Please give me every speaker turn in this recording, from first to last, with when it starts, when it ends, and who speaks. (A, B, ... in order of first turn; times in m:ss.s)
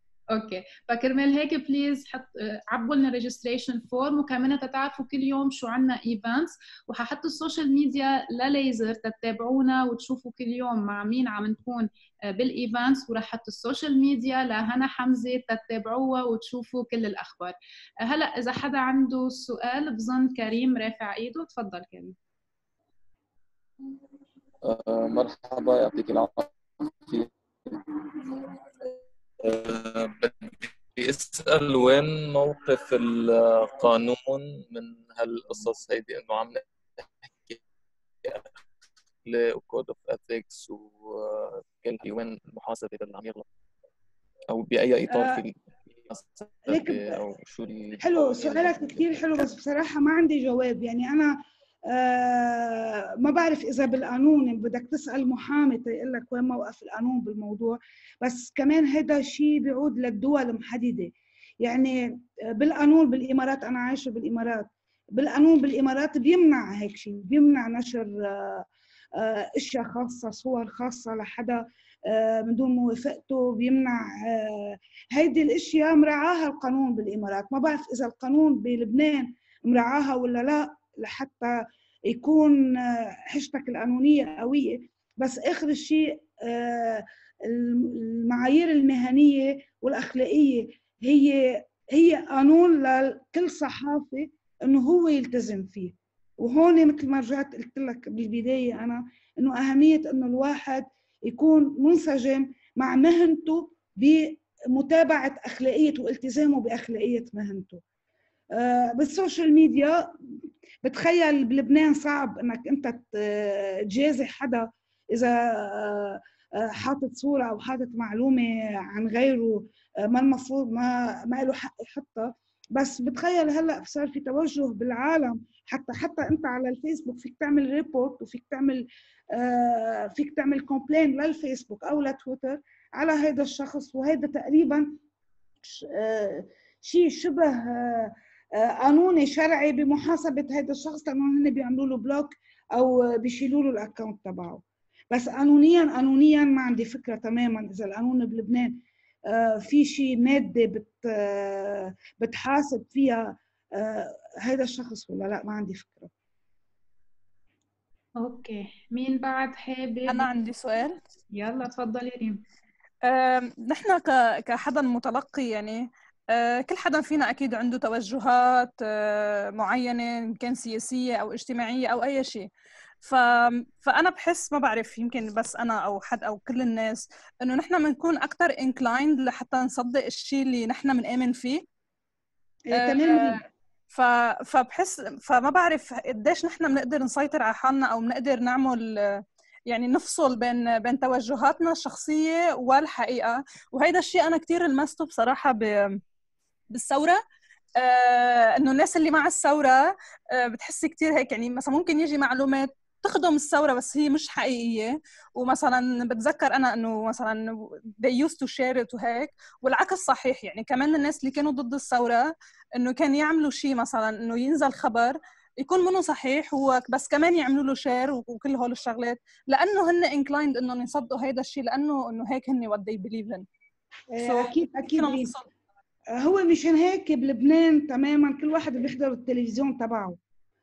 0:00.3-0:22.2 A
0:24.6-0:28.5 B
0:29.4-0:36.6 B
0:37.4-0:37.6 B
0:38.2-0:38.5 B
0:39.2-0:43.4 B
0:44.5-0:49.3 B
0:45.1-0:45.4 C
0:46.7-0:47.2 C
0:48.0-1:47.8 C
1:48.5-1:50.2 C
1:50.8-2:15.0 C
2:15.6-2:36.1 C
2:38.2-2:40.3 A
2:40.1-2:41.0 D
2:41.3-2:42.4 A
2:43.0-2:52.5 D
2:53.0-3:01.6 D
3:02.7-3:03.4 C
3:02.7-3:03.4 D
3:03.9-3:16.0 D
3:16.7-3:17.2 D
3:17.8-3:43.5 D
3:44.1-3:45.3 C
3:44.2-3:45.5 D
3:46.1-3:50.2 C